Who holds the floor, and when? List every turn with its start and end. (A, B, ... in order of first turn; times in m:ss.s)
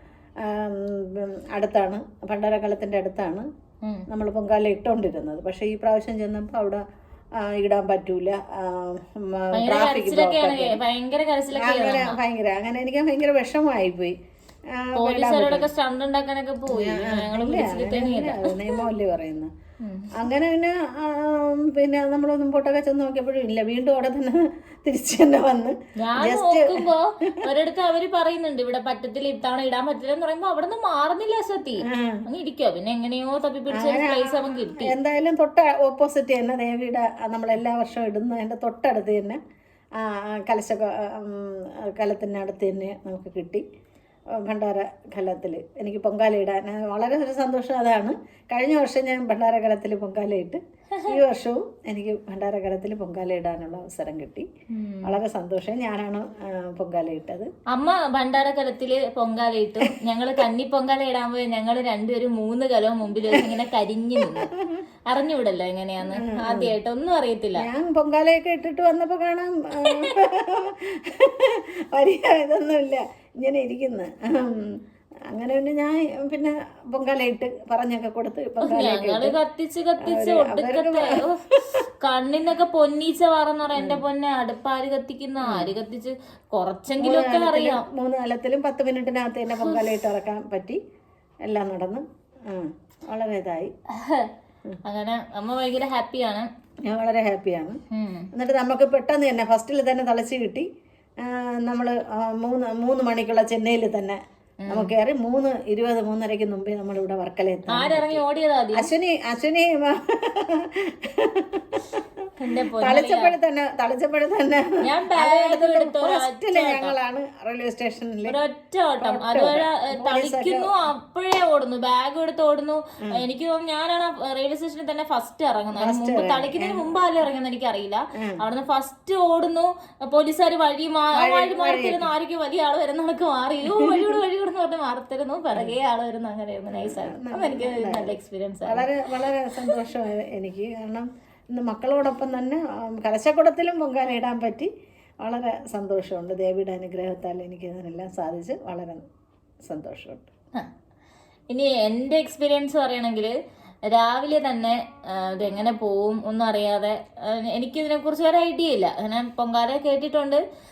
0:00.4-0:03.5 A
0:04.1-0:06.8 A
0:07.4-0:10.8 A
0:09.5-0:12.2 B
0:11.5-0:14.2 A
0:14.8-0:15.7 A
0:15.0-0:18.8 B
0:16.7-0:19.5 A
0:19.8-0:20.1 B
0:20.2-0:26.8 A
0:26.0-0:34.9 B
0:31.8-0:32.2 A
0:33.7-0:39.4 A
0:40.0-0:43.6 A
0:44.4-0:54.5 A
0:54.7-0:55.2 B
0:55.0-0:57.5 A
0:57.7-1:04.5 B
1:04.2-1:04.8 A
1:05.1-1:07.7 B
1:06.1-1:06.7 A
1:07.6-1:14.8 A
1:09.9-1:10.1 B
1:15.3-1:19.4 A
1:18.6-1:27.8 B
1:20.0-1:21.7 A
1:23.8-1:24.0 A
1:25.4-1:25.7 A
1:27.0-1:30.8 A
1:29.5-1:29.9 B
1:31.5-1:33.7 A
1:33.9-1:34.3 B
1:34.9-1:36.5 B
1:36.9-1:37.8 A
1:37.9-1:38.3 B
1:38.3-1:40.7 A
1:41.2-1:48.2 A
1:44.6-1:44.9 B
1:47.7-1:48.9 B
1:48.8-1:52.3 A
1:52.4-1:53.4 B
1:52.8-1:58.4 A
1:54.8-1:57.0 B
1:58.3-2:18.9 B
1:59.0-2:00.7 A
2:05.8-2:06.9 A
2:11.2-2:12.1 A
2:13.7-2:14.2 A
2:16.7-2:18.1 A
2:18.7-2:24.7 A
2:25.2-2:29.0 A
2:29.7-2:30.3 A
2:31.5-2:33.3 B
2:33.9-2:40.4 B